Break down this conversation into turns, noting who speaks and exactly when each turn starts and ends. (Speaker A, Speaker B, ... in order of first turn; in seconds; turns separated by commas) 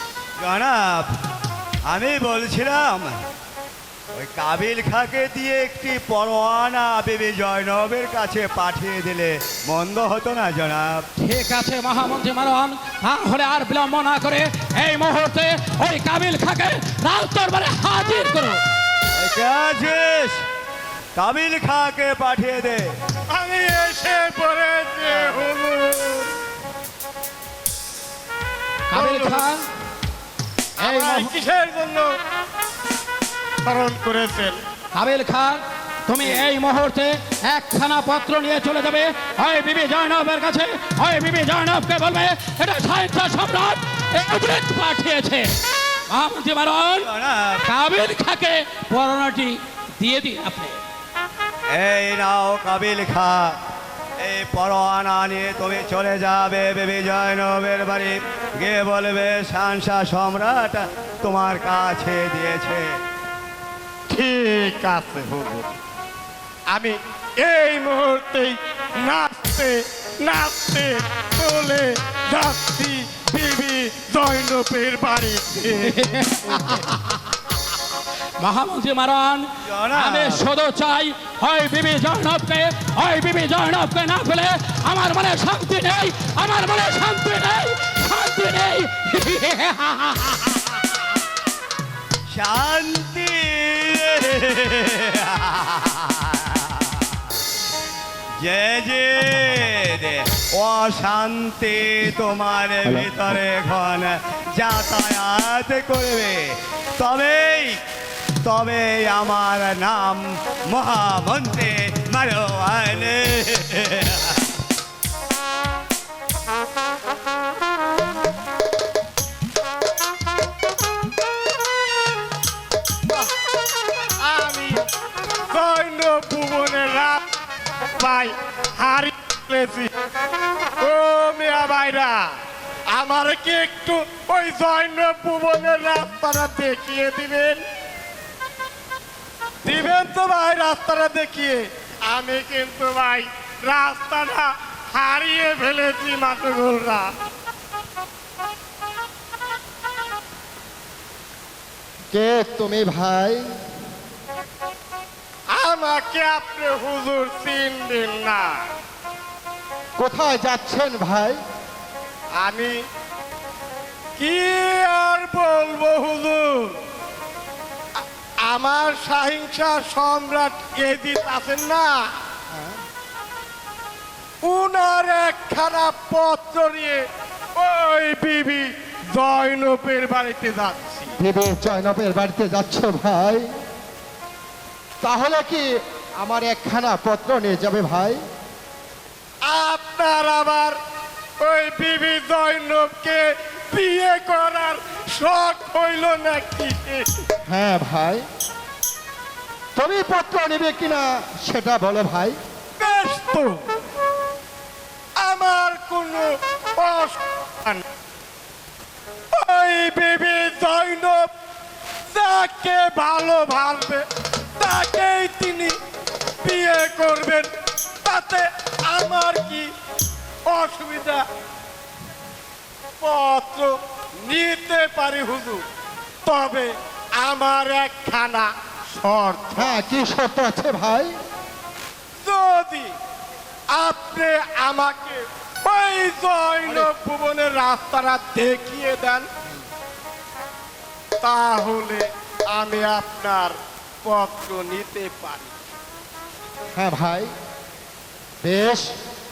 Speaker A: 0.4-1.1, Speaker A: 1.9-3.1, Speaker A: 4.1-11.1, Speaker B: 11.2-18.6, Speaker A: 19.2-20.4, Speaker A: 21.1-23.0, Speaker C: 23.3-26.3, Speaker B: 28.9-29.6, Speaker C: 28.9-29.4, Speaker C: 30.8-32.1, Speaker B: 30.8-31.3, Speaker C: 33.6-34.6, Speaker B: 34.9-45.5, Speaker B: 46.1-47.1, Speaker A: 47.0-47.6, Speaker B: 47.6-50.8, Speaker A: 51.7-53.5, Speaker A: 54.2-62.9, Speaker C: 64.1-65.7, Speaker C: 66.7-76.2, Speaker B: 75.8-77.0, Speaker B: 78.4-90.6, Speaker A: 79.7-80.4, Speaker A: 92.3-96.0, Speaker A: 98.4-107.8, Speaker A: 108.4-114.3, Speaker C: 124.2-124.8, Speaker C: 125.5-127.2, Speaker C: 128.0-129.9, Speaker C: 130.8-132.3, Speaker C: 132.9-137.6, Speaker C: 139.6-147.1, Speaker D: 152.1-153.6, Speaker C: 155.5-158.6, Speaker D: 160.0-161.4, Speaker C: 162.4-162.8, Speaker C: 164.2-166.8, Speaker C: 168.4-172.0, Speaker C: 174.4-177.0, Speaker C: 177.6-181.2, Speaker D: 181.2-183.5, Speaker D: 185.0-188.2, Speaker C: 189.4-190.8, Speaker C: 191.4-197.2, Speaker D: 197.5-198.2, Speaker D: 199.8-202.4, Speaker C: 202.8-203.6, Speaker C: 205.2-207.8, Speaker C: 209.3-211.3, Speaker C: 212.1-214.1, Speaker C: 214.6-215.8, Speaker C: 216.4-217.5, Speaker C: 218.1-219.7, Speaker C: 220.5-221.2, Speaker C: 223.0-225.7, Speaker C: 226.2-229.8, Speaker D: 229.6-231.2, Speaker C: 232.2-232.9, Speaker C: 233.7-239.3, Speaker C: 241.2-245.6, Speaker D: 246.8-247.3, Speaker D: 248.4-248.9